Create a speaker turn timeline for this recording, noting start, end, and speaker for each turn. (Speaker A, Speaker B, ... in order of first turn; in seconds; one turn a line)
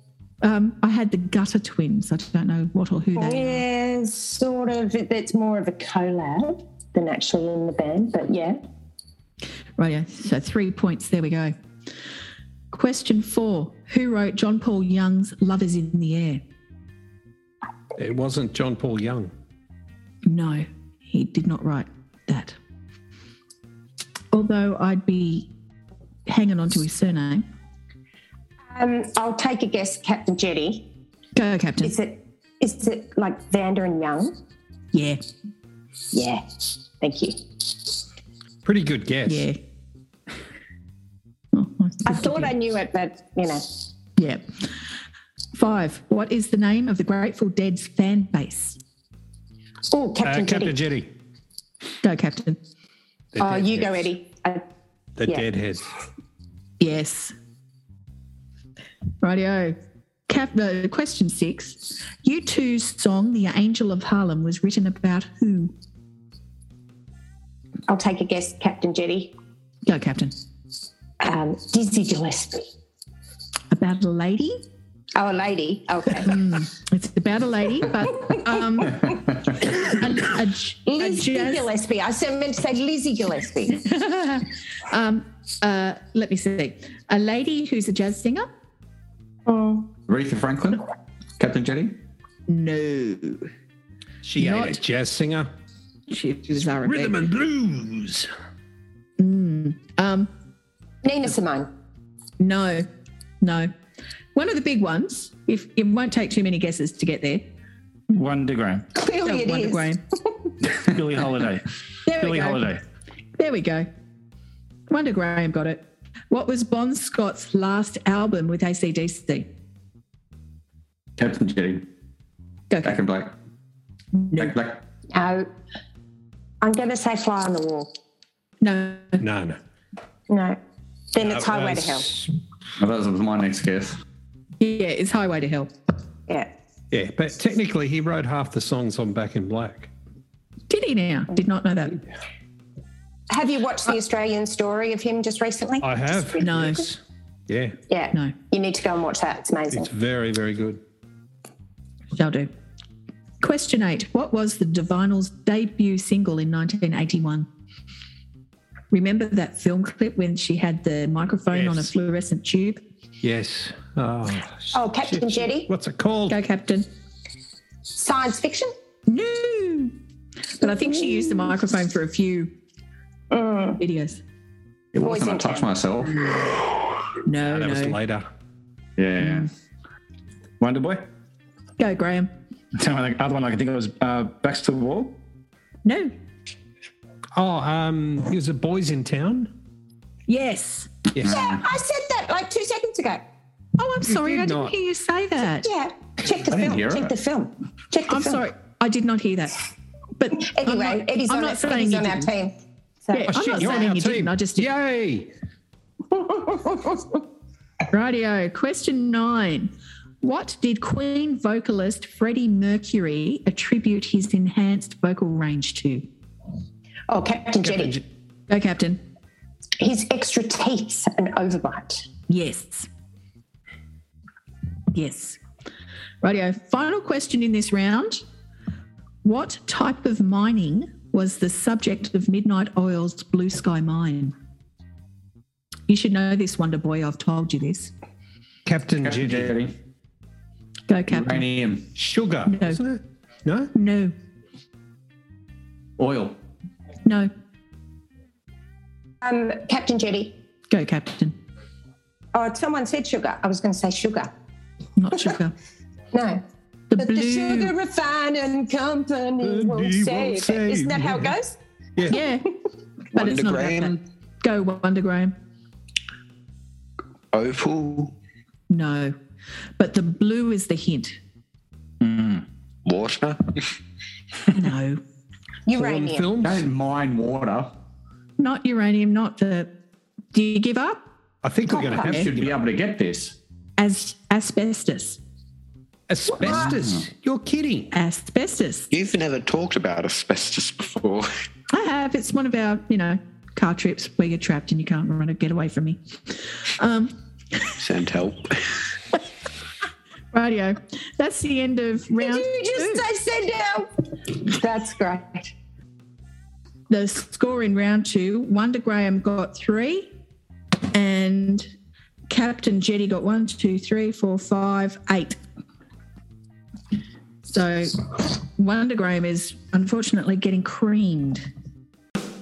Speaker A: 0.4-3.6
Speaker B: 3.2-8.6
Speaker A: 9.8-11.5
Speaker A: 12.7-16.4
Speaker C: 18.0-19.3
Speaker A: 20.3-22.6
Speaker A: 24.3-25.5
Speaker A: 26.3-27.4
Speaker B: 28.7-30.9
Speaker A: 31.4-31.9
Speaker B: 31.8-34.3
Speaker A: 34.9-35.2
Speaker B: 36.1-37.4
Speaker C: 38.6-39.5
Speaker A: 39.3-39.6
Speaker A: 41.5-42.5
Speaker B: 42.1-43.6
Speaker A: 45.5-48.8
Speaker B: 49.9-50.8
Speaker C: 50.2-51.1
Speaker A: 52.0-52.6
Speaker C: 53.3-54.1
Speaker B: 53.4-54.6
Speaker C: 55.2-55.9
Speaker A: 56.8-57.3
Speaker A: 59.2-59.8
Speaker A: 60.3-65.7
Speaker B: 67.9-69.3
Speaker A: 69.9-70.3
Speaker B: 71.2-72.7
Speaker A: 73.7-74.5
Speaker B: 75.2-76.3
Speaker A: 76.2-81.7
Speaker B: 80.9-83.8
Speaker A: 83.8-88.5
Speaker B: 89.5-89.9
Speaker D: 90.1-90.8
Speaker D: 91.4-92.0
Speaker A: 92.5-93.5
Speaker C: 94.2-95.5
Speaker A: 94.4-94.8
Speaker A: 96.1-97.3
Speaker C: 96.7-98.3
Speaker A: 99.2-100.3
Speaker B: 101.0-101.7
Speaker A: 102.4-102.9
Speaker A: 103.4-103.7
Speaker A: 104.3-107.5
Speaker E: 108.1-108.9
Speaker B: 109.0-109.9
Speaker A: 109.2-110.0
Speaker E: 110.7-111.6
Speaker A: 112.0-112.7
Speaker E: 112.2-112.8
Speaker A: 113.4-113.9
Speaker A: 114.9-119.5
Speaker D: 121.2-121.9
Speaker A: 122.7-123.0
Speaker D: 122.8-123.3
Speaker A: 124.2-124.6
Speaker D: 124.4-124.8
Speaker B: 125.1-125.5
Speaker B: 126.6-127.9
Speaker A: 128.6-129.2
Speaker C: 129.2-129.6
Speaker B: 130.3-130.6
Speaker B: 131.1-132.1
Speaker C: 131.2-132.3
Speaker D: 132.8-134.0
Speaker A: 134.6-135.7
Speaker C: 136.9-139.9
Speaker A: 140.7-142.0
Speaker B: 143.3-146.4
Speaker C: 145.8-147.8
Speaker A: 146.4-146.9
Speaker B: 147.9-149.9
Speaker C: 149.7-150.8
Speaker A: 152.2-152.5
Speaker A: 153.4-157.5
Speaker A: 158.9-162.8
Speaker C: 161.5-161.9
Speaker C: 163.2-166.4
Speaker B: 164.7-165.7
Speaker A: 166.3-166.9
Speaker B: 167.9-168.7
Speaker A: 169.1-169.9
Speaker A: 170.6-172.5
Speaker B: 173.3-173.8
Speaker A: 173.8-174.2
Speaker D: 174.9-176.4
Speaker B: 175.0-175.7
Speaker A: 177.2-178.0
Speaker C: 177.4-178.3
Speaker D: 179.0-179.5
Speaker A: 179.2-179.5
Speaker E: 180.6-181.1
Speaker A: 181.8-182.3
Speaker E: 182.8-185.1
Speaker A: 185.8-186.1
Speaker C: 187.3-189.5
Speaker A: 190.3-190.9
Speaker C: 191.1-191.4
Speaker B: 191.2-193.2
Speaker D: 191.3-191.6
Speaker A: 193.8-195.7
Speaker C: 194.1-194.7
Speaker B: 195.6-198.4
Speaker D: 196.4-197.1
Speaker A: 198.1-199.6
Speaker A: 200.2-202.3
Speaker B: 200.4-202.5
Speaker B: 203.0-203.9
Speaker A: 203.1-204.7
Speaker C: 203.3-205.3
Speaker B: 206.1-207.2
Speaker A: 207.9-209.7
Speaker A: 210.2-216.0
Speaker B: 217.1-218.0
Speaker C: 217.6-218.0
Speaker A: 218.5-219.0
Speaker B: 219.8-222.1
Speaker A: 222.3-222.9
Speaker A: 224.9-225.4
Speaker A: 226.2-228.2
Speaker A: 229.2-234.3
Speaker A: 235.9-237.9
Speaker C: 238.7-239.5
Speaker D: 239.0-239.8
Speaker A: 240.9-241.5
Speaker D: 241.1-241.9
Speaker C: 241.9-243.7
Speaker A: 242.5-242.8
Speaker A: 243.8-244.1
Speaker D: 246.0-246.4
Speaker A: 247.1-247.3
Speaker B: 249.2-250.3
Speaker A: 250.7-251.3
Speaker B: 252.3-254.3
Speaker A: 255.0-255.5
Speaker B: 256.1-256.4
Speaker A: 256.9-257.7
Speaker B: 257.0-261.6
Speaker C: 259.4-261.4
Speaker C: 262.0-262.2
Speaker A: 262.1-262.5
Speaker F: 263.1-264.0
Speaker A: 263.1-265.3
Speaker F: 267.3-268.1
Speaker A: 268.7-269.1
Speaker A: 269.8-271.2
Speaker E: 272.0-272.4
Speaker F: 272.9-273.7
Speaker A: 274.5-275.0
Speaker B: 275.7-276.3
Speaker C: 275.8-276.7
Speaker D: 276.4-277.7
Speaker A: 278.4-279.7
Speaker A: 280.3-281.0
Speaker C: 281.4-282.5
Speaker A: 281.7-282.3
Speaker D: 281.9-283.4
Speaker A: 283.8-285.2
Speaker C: 286.1-287.9
Speaker D: 286.4-287.0
Speaker A: 287.9-288.9
Speaker F: 288.9-291.3
Speaker A: 291.7-296.0
Speaker A: 296.6-297.1
Speaker F: 297.8-298.7
Speaker A: 300.3-303.1
Speaker B: 302.2-305.5
Speaker A: 306.9-310.1
Speaker A: 310.9-311.7
Speaker A: 312.3-315.4
Speaker A: 317.5-321.4